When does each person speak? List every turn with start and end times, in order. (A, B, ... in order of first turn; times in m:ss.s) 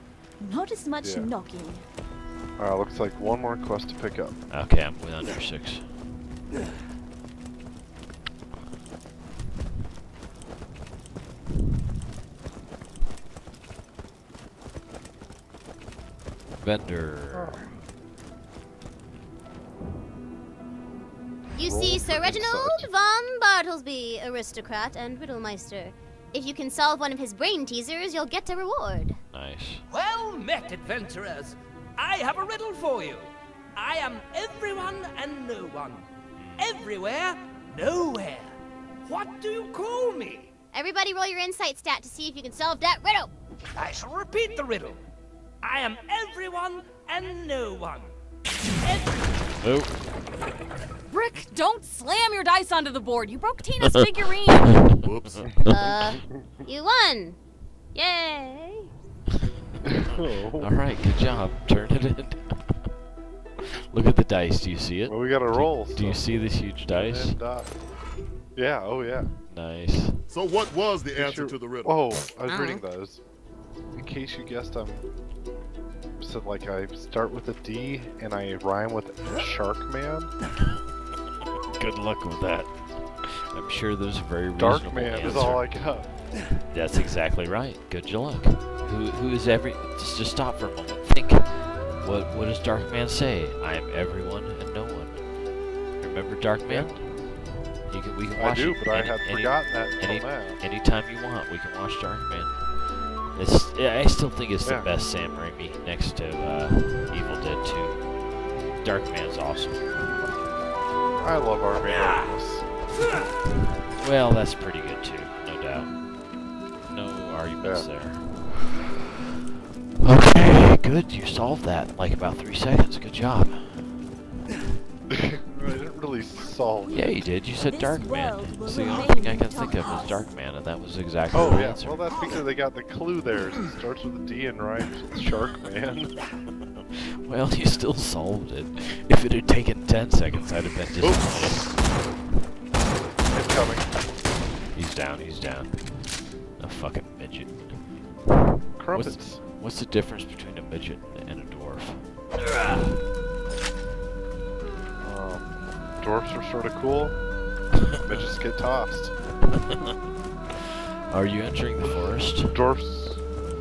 0:00.4-0:01.8 A
0:01.0-0:01.3 B
0:02.6-0:04.4 B
0:04.5-0:05.9 C
0:16.6-0:17.7 C
0:17.3-0:17.7 B
0:21.6-0:29.2 D
0:21.6-0:22.9 B
0:29.3-0:29.8 C
0:29.9-0:36.0 E
0:36.3-0:36.6 C
0:36.6-0:40.5 E
0:40.7-0:43.3 D
0:43.8-0:45.0 E
0:45.6-0:48.1 E
0:48.8-0:49.3 E
0:49.6-0:50.0 C
0:51.1-0:54.8 F
0:54.6-0:55.9 C
0:54.9-0:55.6 G
0:55.7-0:57.4 D
0:57.9-0:58.9 D
1:00.0-1:00.7 B
1:00.6-1:02.9 C
1:03.9-1:07.4 C
1:05.0-1:07.7 B
1:08.6-1:09.3 B
1:09.5-1:10.2 C
1:10.3-1:12.0 G
1:11.1-1:13.2 B
1:14.0-1:15.0 B
1:16.2-1:20.3 B
1:21.8-1:25.9 C
1:24.6-1:26.1 B
1:26.7-1:35.4 C
1:36.0-1:48.2 C
1:36.6-1:37.0 B
1:38.4-1:40.6 B
1:44.6-1:44.9 B
1:48.7-1:49.9 C
1:51.2-1:52.7 B
1:53.9-1:56.0 C
1:56.8-1:58.6 C
1:57.6-1:57.9 B
2:00.0-2:04.1 C
2:05.1-2:07.1 B
2:06.8-2:10.3 A
2:06.9-2:12.1 C
2:11.3-2:16.1 B
2:17.0-2:21.8 C
2:21.0-2:21.8 G
2:23.3-2:23.9 B
2:24.7-2:28.0 C
2:28.8-2:29.4 B
2:28.9-2:32.1 C
2:35.0-2:37.2 B
2:37.7-2:38.3 C
2:38.0-2:39.1 B
2:39.6-2:39.9 C
2:40.6-2:42.6 C
2:41.8-2:43.2 B